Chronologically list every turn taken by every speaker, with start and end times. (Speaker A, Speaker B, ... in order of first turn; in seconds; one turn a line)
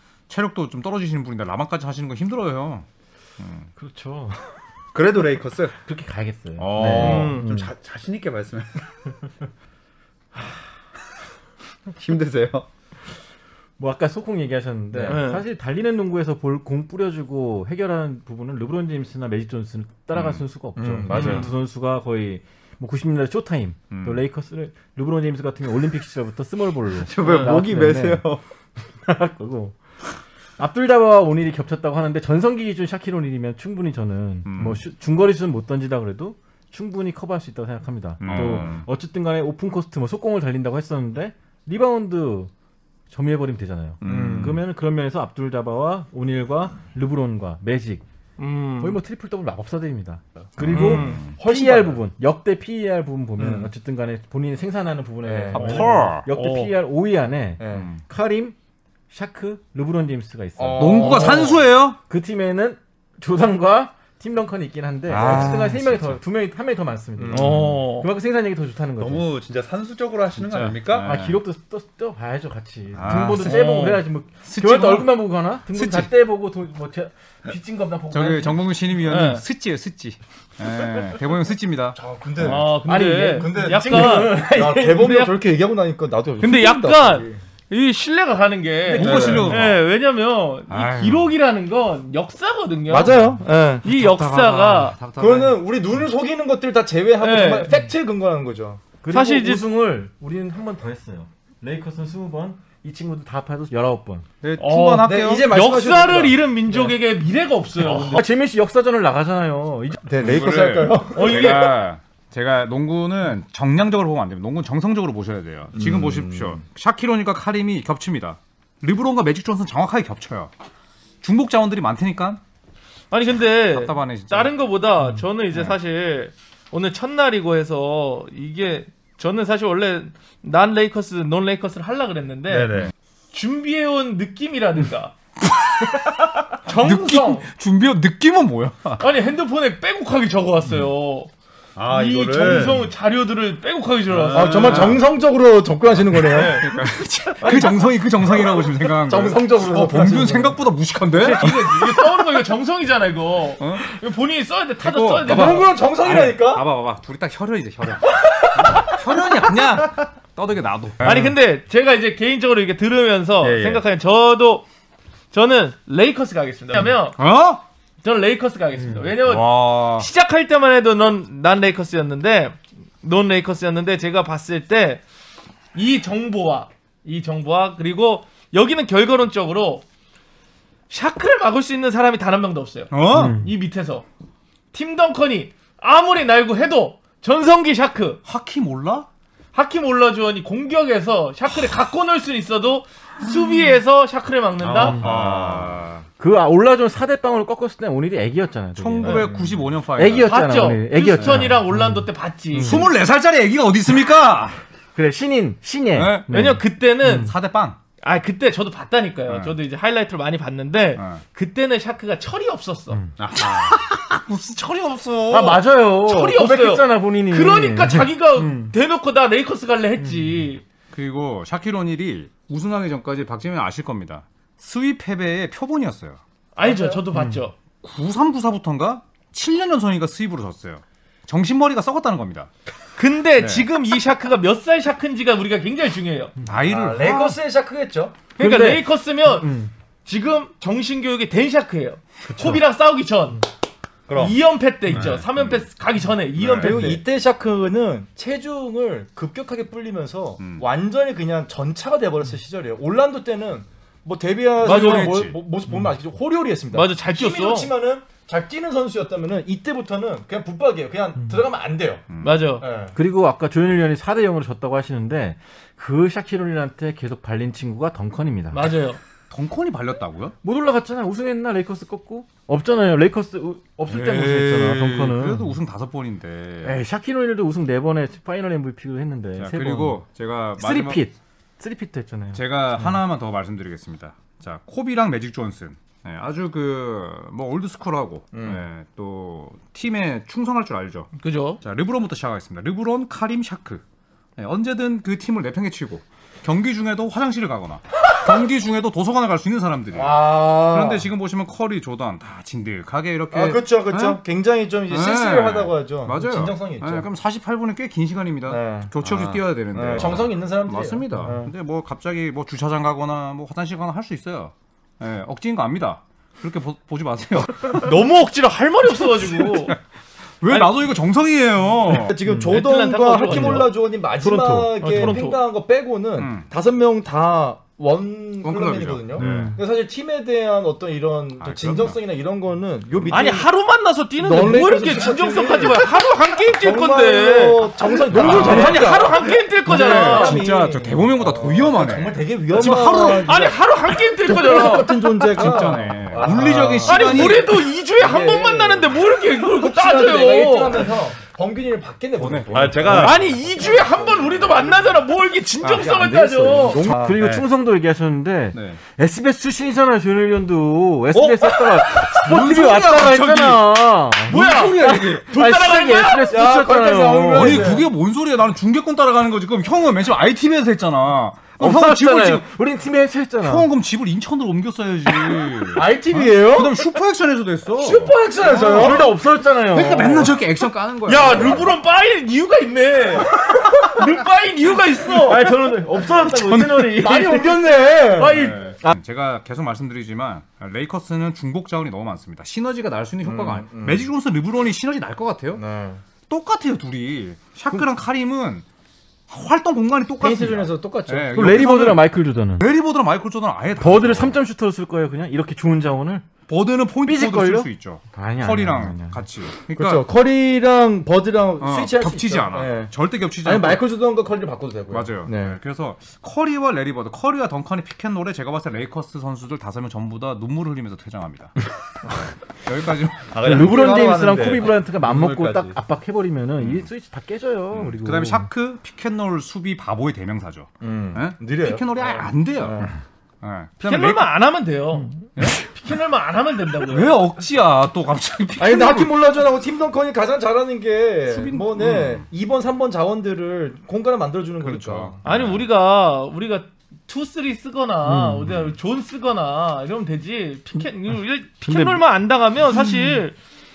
Speaker A: 0.3-2.9
Speaker A: 3.4-3.7
Speaker B: 3.8-4.4
Speaker C: 4.9-5.8
Speaker B: 5.8-7.7
Speaker A: 6.6-7.4
Speaker C: 6.8-8.8
Speaker D: 6.9-7.5
Speaker C: 12.0-12.7
Speaker B: 13.8-28.2
Speaker E: 14.9-15.2
Speaker D: 15.1-15.4
Speaker A: 20.1-20.4
Speaker E: 20.8-21.5
Speaker D: 21.1-21.5
Speaker A: 23.9-24.2
Speaker C: 27.0-28.4
Speaker D: 27.2-27.6
Speaker B: 29.1-29.8
Speaker B: 30.6-42.5
Speaker A: 34.5-34.8
Speaker A: 38.2-38.9
Speaker B: 43.1-48.0
Speaker A: 44.0-44.6
Speaker E: 44.1-44.5
Speaker D: 48.4-49.0
Speaker B: 48.8-58.6
Speaker A: 50.6-51.3
Speaker D: 50.7-51.2
Speaker E: 50.7-52.0
Speaker E: 53.4-53.7
Speaker E: 55.2-56.0
Speaker A: 55.5-56.3
Speaker D: 55.6-56.7
Speaker E: 57.6-57.9
Speaker A: 57.7-58.0
Speaker B: 59.1-69.3
Speaker E: 60.6-61.6
Speaker A: 60.8-62.0
Speaker A: 65.1-66.2
Speaker E: 65.2-65.5
Speaker E: 67.2-67.7
Speaker D: 67.3-68.1
Speaker C: 69.0-71.1
Speaker A: 70.4-71.4
Speaker B: 70.9-78.7
Speaker A: 72.9-73.7
Speaker D: 73.4-74.1
Speaker A: 74.4-75.2
Speaker A: 75.7-76.1
Speaker A: 78.1-82.5
Speaker D: 79.0-79.4
Speaker E: 82.0-87.4
Speaker D: 82.4-85.3
Speaker B: 82.8-85.1
Speaker D: 86.4-93.3
Speaker E: 88.9-89.6
Speaker A: 89.0-89.8
Speaker A: 90.7-91.3
Speaker E: 92.9-93.8
Speaker D: 93.8-95.0
Speaker A: 93.8-95.6
Speaker E: 95.2-98.8
Speaker D: 97.2-97.7
Speaker B: 99.0-104.3
Speaker D: 99.1-99.7
Speaker A: 104.4-105.5
Speaker D: 104.6-108.2
Speaker E: 105.0-106.9
Speaker B: 107.8-110.0
Speaker E: 110.0-111.7
Speaker A: 110.2-120.5
Speaker D: 111.1-111.8
Speaker E: 115.8-116.6
Speaker A: 121.2-122.4
Speaker D: 123.1-132.7
Speaker A: 123.7-124.5
Speaker C: 132.5-132.9
Speaker D: 133.3-135.1
Speaker A: 135.4-139.0
Speaker D: 136.6-137.5
Speaker D: 139.0-141.3
Speaker C: 141.8-142.9
Speaker D: 141.9-144.9
Speaker C: 144.1-145.0
Speaker A: 144.3-145.0
Speaker E: 144.3-146.7
Speaker A: 146.2-152.1
Speaker D: 146.3-146.7
Speaker E: 147.4-147.8
Speaker E: 148.9-150.6
Speaker D: 151.1-155.7
Speaker A: 153.6-153.9
Speaker A: 154.8-161.3
Speaker E: 155.2-156.7
Speaker D: 161.0-164.7
Speaker C: 163.4-163.8
Speaker D: 165.3-167.2
Speaker A: 167.2-167.6
Speaker D: 168.0-175.0
Speaker A: 169.2-170.1
Speaker D: 175.7-179.8
Speaker D: 180.9-184.0
Speaker A: 182.9-183.4
Speaker B: 183.1-183.5
Speaker D: 184.7-188.2
Speaker A: 188.2-189.1
Speaker D: 189.5-195.0
Speaker A: 194.6-196.1
Speaker B: 194.8-195.1
Speaker C: 194.8-195.8
Speaker B: 196.2-199.3
Speaker A: 198.8-200.4
Speaker E: 199.1-199.7
Speaker B: 199.9-202.9
Speaker D: 200.2-202.9
Speaker A: 201.2-201.5
Speaker A: 202.6-204.6
Speaker B: 204.9-207.3
Speaker A: 205.9-206.3
Speaker D: 206.3-207.3
Speaker A: 207.1-207.8
Speaker D: 208.0-213.0
Speaker A: 209.3-209.6
Speaker A: 211.0-211.2
Speaker C: 213.2-213.8
Speaker A: 213.3-215.6
Speaker B: 215.3-218.8
Speaker D: 216.0-220.6
Speaker B: 220.0-220.5
Speaker A: 220.9-226.2
Speaker D: 226.6-227.6
Speaker E: 226.6-227.0
Speaker B: 227.1-227.4
Speaker A: 227.8-232.5
Speaker D: 233.0-236.3
Speaker A: 233.4-233.7
Speaker A: 236.4-237.3
Speaker E: 236.6-238.2
Speaker D: 238.4-239.5
Speaker B: 238.4-239.7
Speaker D: 240.1-243.4
Speaker C: 244.1-244.4
Speaker D: 244.1-247.0
Speaker A: 244.9-245.6
Speaker A: 246.4-246.9
Speaker E: 246.5-262.1
Speaker A: 250.4-250.6
Speaker A: 254.6-255.4
Speaker D: 254.6-255.2
Speaker D: 256.7-257.7
Speaker A: 262.1-262.5
Speaker D: 262.2-262.6
Speaker E: 262.6-262.9
Speaker B: 262.9-268.6
Speaker D: 268.5-269.0
Speaker A: 269.3-270.4
Speaker B: 270.4-275.6
Speaker A: 273.9-276.8
Speaker B: 276.6-280.0
Speaker A: 279.4-281.1
Speaker B: 280.6-283.0
Speaker A: 282.3-291.1
Speaker E: 288.3-288.6
Speaker D: 291.2-291.6
Speaker A: 291.6-293.8
Speaker A: 294.4-304.2
Speaker E: 299.9-301.1
Speaker E: 303.3-307.1
Speaker A: 304.9-318.0
Speaker E: 308.5-308.9
Speaker C: 309.0-310.2
Speaker E: 309.7-311.5
Speaker D: 317.7-319.8
Speaker A: 319.2-319.8
Speaker A: 320.4-322.2
Speaker E: 321.9-333.5
Speaker B: 322.2-322.6
Speaker D: 322.3-323.7
Speaker B: 323.2-325.2
Speaker D: 324.8-325.4
Speaker A: 326.2-326.5
Speaker A: 328.4-329.6
Speaker B: 329.2-329.6
Speaker A: 331.4-332.0
Speaker D: 333.1-340.4
Speaker E: 334.2-335.9
Speaker E: 336.6-343.6
Speaker A: 338.1-339.0
Speaker A: 339.7-343.3
Speaker D: 342.6-345.4
Speaker E: 344.2-347.4
Speaker A: 345.2-347.6
Speaker D: 346.8-350.9
Speaker E: 348.0-355.0
Speaker A: 352.1-353.2
Speaker C: 352.5-353.2
Speaker D: 352.9-356.9
Speaker A: 355.6-355.9
Speaker E: 355.9-357.2
Speaker B: 356.5-367.8
Speaker C: 357.1-357.4
Speaker A: 358.5-358.8
Speaker A: 361.1-363.7
Speaker A: 364.3-365.4
Speaker D: 364.3-366.4
Speaker E: 366.2-367.9
Speaker A: 367.3-372.5
Speaker B: 371.6-373.7
Speaker A: 373.4-379.1
Speaker E: 375.7-376.8
Speaker E: 377.8-379.1
Speaker B: 378.5-380.4
Speaker A: 379.7-381.8
Speaker D: 381.1-385.5
Speaker B: 385.2-387.6
Speaker A: 386.4-386.9
Speaker E: 386.6-388.5
Speaker A: 388.2-395.6
Speaker B: 388.2-388.6
Speaker E: 393.2-394.1
Speaker E: 395.5-396.0
Speaker A: 396.3-398.6
Speaker A: 399.3-404.4
Speaker E: 400.2-401.6
Speaker B: 401.3-402.7
Speaker B: 403.8-406.3
Speaker A: 406.5-410.1
Speaker B: 407.0-409.2
Speaker E: 409.7-415.6
Speaker A: 411.6-413.8
Speaker A: 414.9-421.5
Speaker A: 422.6-423.7
Speaker C: 423.3-425.8
Speaker B: 423.4-428.5
Speaker A: 426.6-426.9
Speaker A: 427.7-434.3
Speaker E: 430.8-432.9
Speaker D: 433.8-437.2
Speaker A: 435.4-435.7
Speaker A: 436.9-439.1
Speaker E: 438.6-445.2
Speaker A: 441.3-442.2
Speaker A: 444.6-445.7
Speaker D: 445.2-453.4
Speaker B: 448.0-448.7
Speaker B: 451.6-452.0